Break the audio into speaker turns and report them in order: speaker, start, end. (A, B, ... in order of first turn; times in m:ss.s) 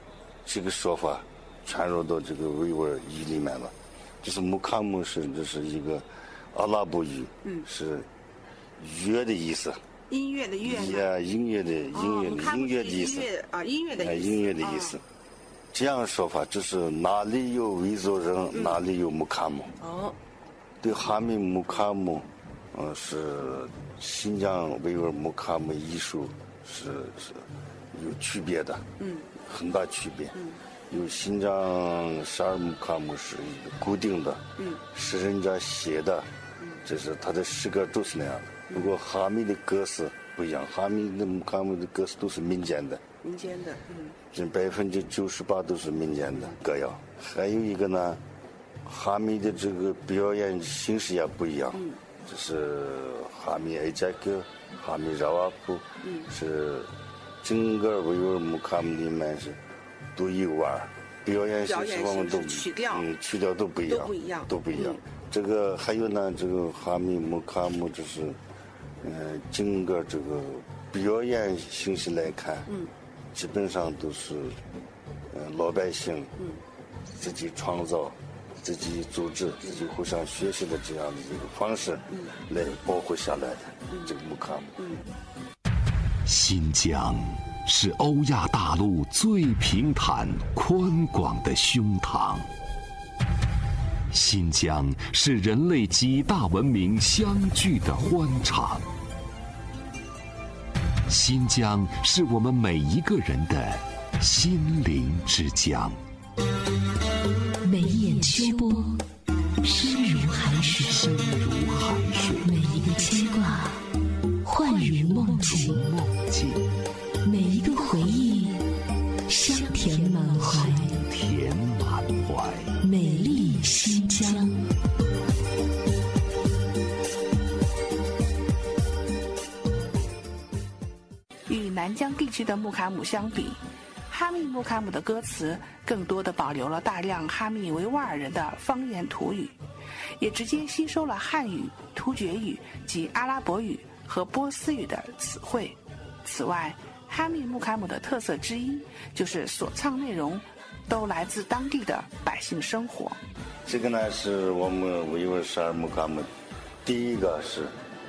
0:00.4-0:08.1 A
0:08.8-0:09.8 A
0:10.1-0:11.1 B
0:10.6-0:13.3 A
0:11.9-0:15.0 B
0:14.0-0:15.0 A
0:15.7-0:19.7 A
0:18.5-0:18.8 B
0:19.8-0:20.2 B
0:20.8-0:28.8 A
0:29.0-0:29.3 B
0:29.4-0:30.4 A
0:30.9-0:36.3 A
0:36.8-0:43.0 A
0:43.2-0:44.2 B
0:44.3-0:48.2 A
0:48.8-0:56.9 A
0:51.7-0:52.0 B
0:56.0-0:56.3 B
0:57.4-0:59.6 A
1:00.1-1:08.4 A
1:01.6-1:03.1 B
1:03.8-1:05.0 B
1:09.0-1:12.7 A
1:13.3-1:14.6 A
1:15.3-1:16.3 A
1:17.1-1:24.8 A
1:24.8-1:25.0 B
1:26.2-1:32.5 C
1:34.1-1:38.8 C
1:41.1-1:46.0 C
1:47.6-1:49.0 D
1:49.6-1:51.1 D
1:50.8-1:52.7 C
1:52.4-1:53.8 D
1:54.4-1:55.8 D
1:55.2-1:56.6 C
1:57.2-1:58.6 D
1:59.3-2:01.0 D
2:01.0-2:02.7 C
2:02.8-2:04.6 D
2:11.5-2:19.6 E
2:20.2-2:33.2 E
2:33.6-2:36.3 A
2:36.8-2:37.7 A